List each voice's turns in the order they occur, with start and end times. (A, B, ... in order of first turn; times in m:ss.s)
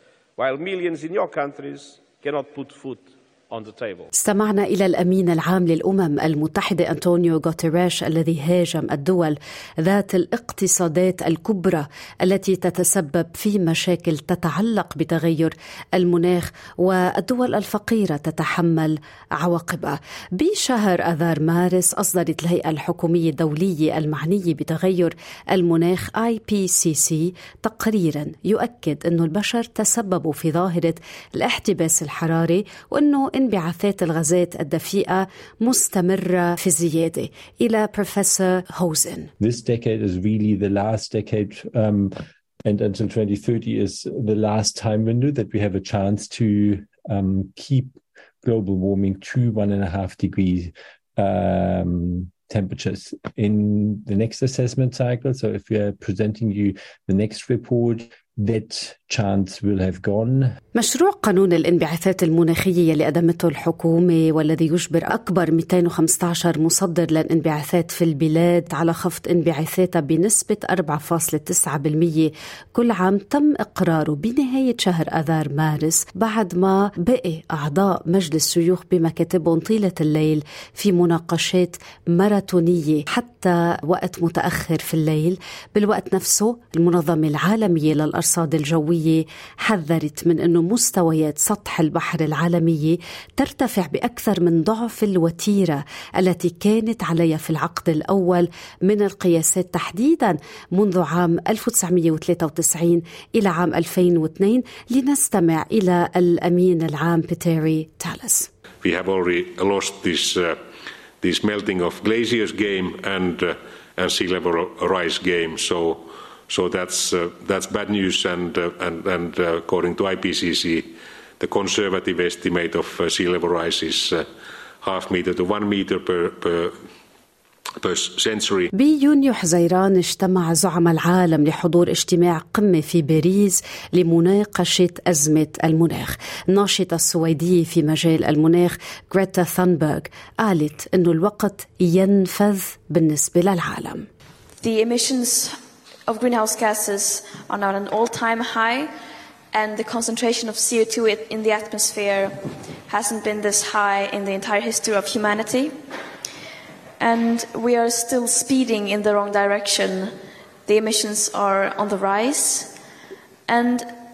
0:00.4-0:04.1 A
0:04.1-0:39.3 B
0:39.4-1:00.6 C
1:00.8-1:48.5 B
1:48.8-1:50.6 D
1:51.2-2:04.3 D
2:04.8-2:06.8 D
2:07.8-2:08.7 D
2:08.8-2:24.1 B
2:24.6-2:28.9 E
2:29.5-2:35.8 E
2:37.0-2:42.7 E
2:43.5-2:43.9 E